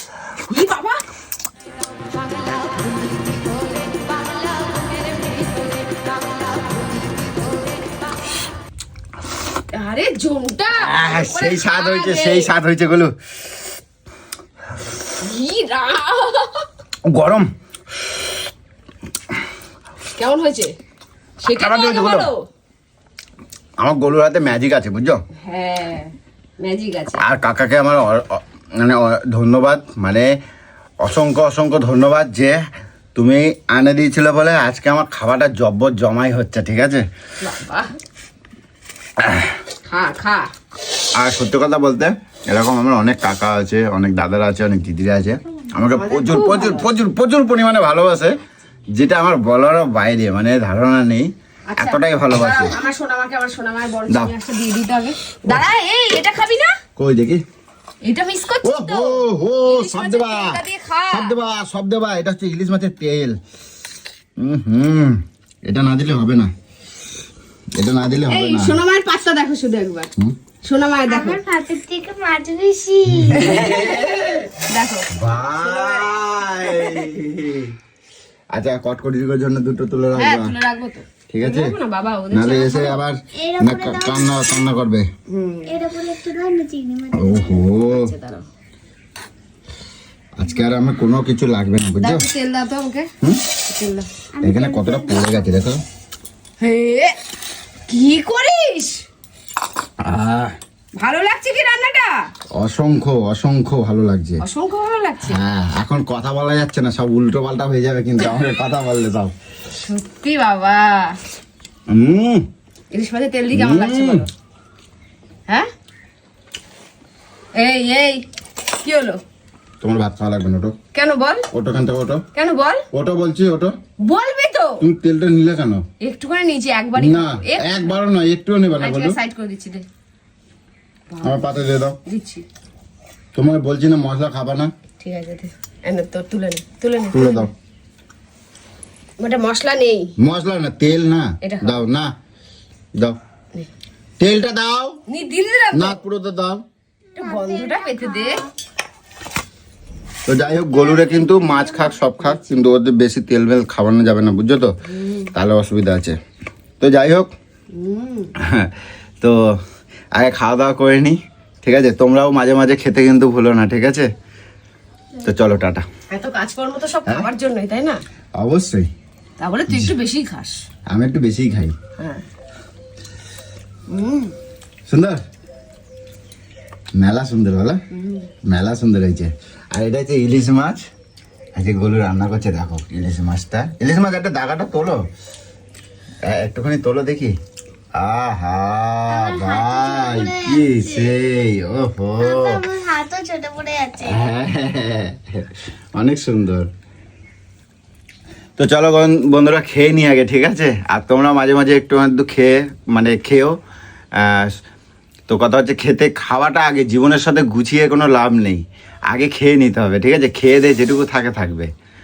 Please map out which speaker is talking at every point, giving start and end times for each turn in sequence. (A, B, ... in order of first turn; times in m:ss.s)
0:00.4-0:01.0 A
0:09.7-0:12.5 A
0:10.8-0:13.1 B
0:15.2-0:16.7 A
0:17.0-0:17.5 B
0:20.1-0:20.7 A
0:21.4-0:22.4 A
0:21.4-0:22.3 B
0:23.8-0:25.2 B
0:25.4-0:27.2 A
0:27.2-0:30.3 B
0:31.0-0:32.6 B
0:33.1-0:37.0 B
0:37.4-0:37.9 A
0:39.2-0:39.5 B
0:39.8-0:40.5 A
0:41.2-0:48.4 B
0:45.9-0:46.9 A
0:48.9-0:52.8 B
0:51.7-0:56.7 A
0:57.0-0:57.4 B
0:58.0-1:01.3 A
0:58.6-1:03.4 B
1:04.4-1:06.5 B
1:07.8-1:08.8 B
1:08.1-1:10.1 A
1:10.6-1:11.4 A
1:11.1-1:13.8 C
1:13.1-1:14.5 B
1:13.3-1:14.0 A
1:14.7-1:17.1 A
1:15.1-1:17.7 B
1:18.5-1:20.5 B
1:20.1-1:23.0 A
1:21.3-1:21.7 B
1:22.3-1:25.1 B
1:23.3-1:24.3 C
1:25.3-1:25.8 A
1:25.7-1:27.7 C
1:27.1-1:28.1 B
1:27.8-1:28.4 A
1:30.4-1:32.2 B
1:32.0-1:33.1 A
1:33.6-1:34.1 A
1:34.3-1:35.6 C
1:34.4-1:35.8 B
1:36.6-1:37.1 A
1:37.9-1:39.0 A
1:40.0-1:40.5 B
1:41.0-1:42.3 A
1:42.5-1:44.4 B
1:44.4-1:45.4 A
1:45.2-1:49.3 B
1:49.8-1:51.2 A
1:51.9-1:52.4 B
1:52.9-1:54.3 A
1:53.5-1:54.2 B
1:57.5-1:58.2 A
1:58.8-1:59.2 A
1:59.8-2:00.7 B
2:00.9-2:01.4 A
2:01.5-2:02.2 B
2:02.3-2:02.8 A
2:02.9-2:03.7 B
2:04.0-2:04.8 A
2:04.8-2:05.8 B
2:06.0-2:07.9 A
2:06.9-2:09.2 B
2:08.8-2:09.8 A
2:11.1-2:12.4 A
2:11.2-2:12.0 B
2:13.3-2:14.7 B
2:15.0-2:17.5 A
2:17.1-2:17.5 B
2:19.2-2:20.1 A
2:20.2-2:22.1 B
2:21.4-2:21.8 A
2:24.2-2:25.0 B
2:25.1-2:26.0 A
2:25.7-2:26.6 B
2:27.1-2:28.5 C
2:27.2-2:28.4 A
2:30.2-2:34.7 B
2:30.6-2:32.0 C
2:34.9-2:35.2 A
2:35.3-2:36.2 B
2:36.8-2:37.3 B
2:37.7-2:38.3 A
2:38.4-2:39.5 B
2:40.2-2:44.1 B
2:45.2-2:45.8 B
2:46.1-2:48.0 A
2:48.4-2:48.9 B
2:49.4-2:50.6 A
2:49.7-2:49.9 B
2:50.9-2:51.8 B
2:52.0-2:52.2 A
2:53.9-2:54.3 A
2:54.9-2:55.2 B
2:57.0-2:57.8 B
2:57.9-2:58.3 A
2:58.4-3:00.8 B
3:01.6-3:05.0 B
3:06.2-3:07.3 B
3:08.0-3:12.6 B
3:09.1-3:11.1 C
3:12.2-3:14.3 C
3:14.0-3:16.7 B
3:18.6-3:23.6 B
3:24.2-3:24.5 B
3:25.3-3:31.7 B